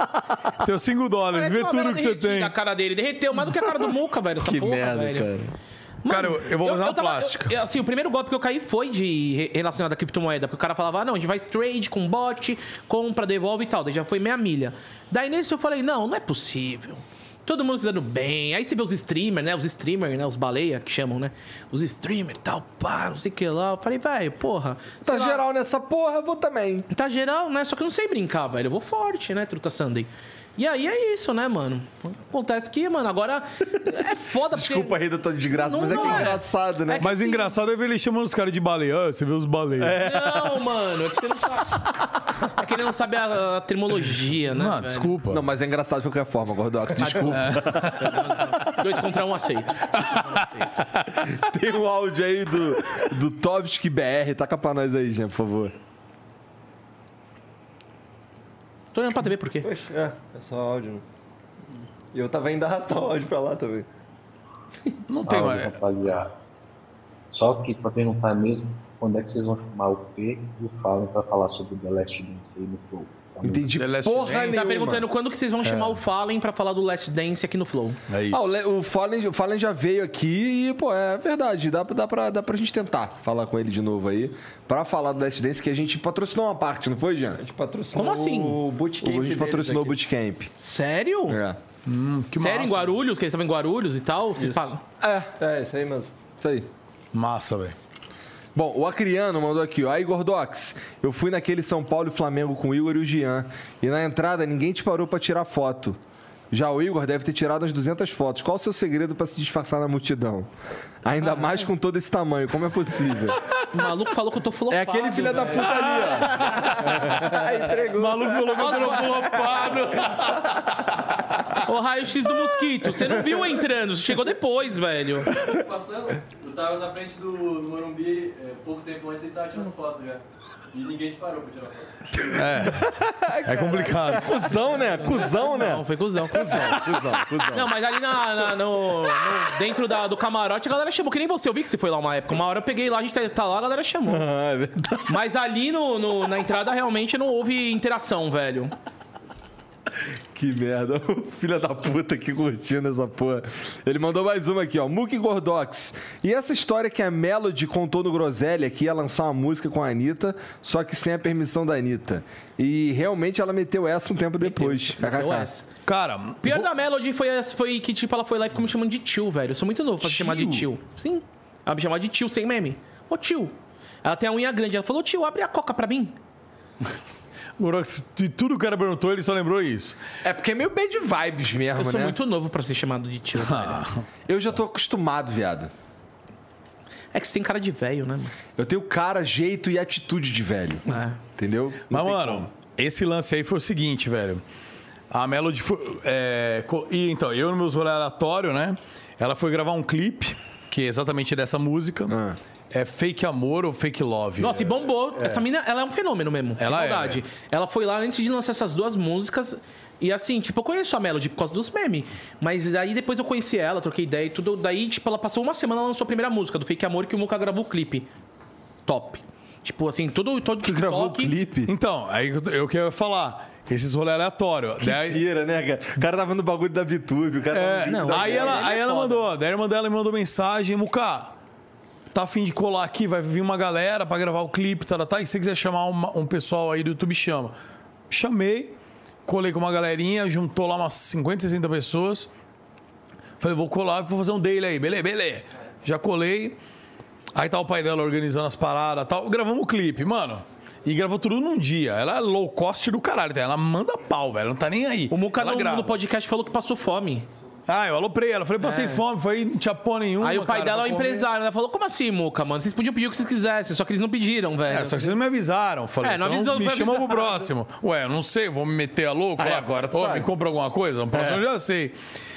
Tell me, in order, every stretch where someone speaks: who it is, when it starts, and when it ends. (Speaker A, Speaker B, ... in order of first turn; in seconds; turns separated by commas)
Speaker A: 0.5-2.5, Speaker B: 1.3-5.3, Speaker C: 4.4-5.5, Speaker B: 6.0-25.4, Speaker A: 6.1-7.5, Speaker C: 25.0-26.9, Speaker B: 26.9-35.0, Speaker C: 34.5-37.0, Speaker B: 35.6-37.5, Speaker A: 37.0-40.0, Speaker C: 39.8-40.6, Speaker B: 40.0-41.9, Speaker B: 42.5-45.1, Speaker A: 44.5-45.4, Speaker C: 45.3-48.4, Speaker B: 47.0-50.6, Speaker A: 47.3-48.3, Speaker A: 50.0-51.2, Speaker C: 51.3-55.7, Speaker B: 58.9-59.7, Speaker D: 59.6-61.0, Speaker D: 62.1-63.9, Speaker A: 65.1-66.2, Speaker E: 65.1-66.3, Speaker E: 67.3-73.7, Speaker C: 73.4-75.1, Speaker A: 73.7-74.6, Speaker B: 74.5-78.0, Speaker A: 75.6-76.0, Speaker A: 78.1-78.5, Speaker C: 78.3-87.4, Speaker D: 87.3-90.0, Speaker B: 87.9-88.6, Speaker C: 89.0-90.5, Speaker B: 90.6-91.4, Speaker C: 91.3-91.6, Speaker A: 91.8-93.0, Speaker B: 92.3-94.8, Speaker D: 94.4-94.7, Speaker C: 95.0-95.3, Speaker D: 95.3-96.1, Speaker C: 96.4-96.7, Speaker A: 97.1-97.8, Speaker C: 98.5-106.0, Speaker C: 106.5-110.5, Speaker C: 111.0-113.4, Speaker B: 113.7-115.8, Speaker C: 114.7-117.9, Speaker A: 115.6-117.3, Speaker D: 117.2-118.6, Speaker A: 117.9-121.6, Speaker B: 118.5-119.3, Speaker B: 121.6-125.3, Speaker F: 125.5-132.0, Speaker A: 132.3-132.9, Speaker C: 132.5-137.7, Speaker A: 133.4-134.6, Speaker B: 135.0-136.7, Speaker A: 136.5-137.2, Speaker B: 137.5-144.3, Speaker C: 144.1-145.3, Speaker B: 145.1-148.7, Speaker C: 150.3-165.5, Speaker B: 164.4-165.6, Speaker A: 165.8-166.7, Speaker B: 166.4-176.1, Speaker C: 170.0-170.7, Speaker A: 177.6-180.0, Speaker C: 180.2-182.2, Speaker B: 181.8-183.8, Speaker A: 183.4-184.0, Speaker C: 184.3-185.7, Speaker B: 187.1-188.3, Speaker C: 188.6-192.5, Speaker B: 190.9-191.2, Speaker A: 191.9-194.4, Speaker A: 195.1-202.2, Speaker C: 202.1-202.4, Speaker A: 202.7-205.4, Speaker B: 204.4-218.1, Speaker A: 206.6-207.2, Speaker B: 218.8-221.3, Speaker C: 220.6-221.7, Speaker A: 221.7-225.2, Speaker C: 224.8-228.7, Speaker A: 227.5-231.3, Speaker B: 227.9-229.2, Speaker A: 232.1-237.5, Speaker A: 238.1-238.7, Speaker A: 239.2-242.3, Speaker A: 243.4-246.6, Speaker A: 247.3-256.0, Speaker B: 255.1-257.3, Speaker A: 257.7-261.3, Speaker B: 258.6-259.0, Speaker B: 260.2-265.2, Speaker A: 264.7-271.9, Speaker B: 266.0-267.5, Speaker C: 269.4-270.3, Speaker C: 271.1-271.4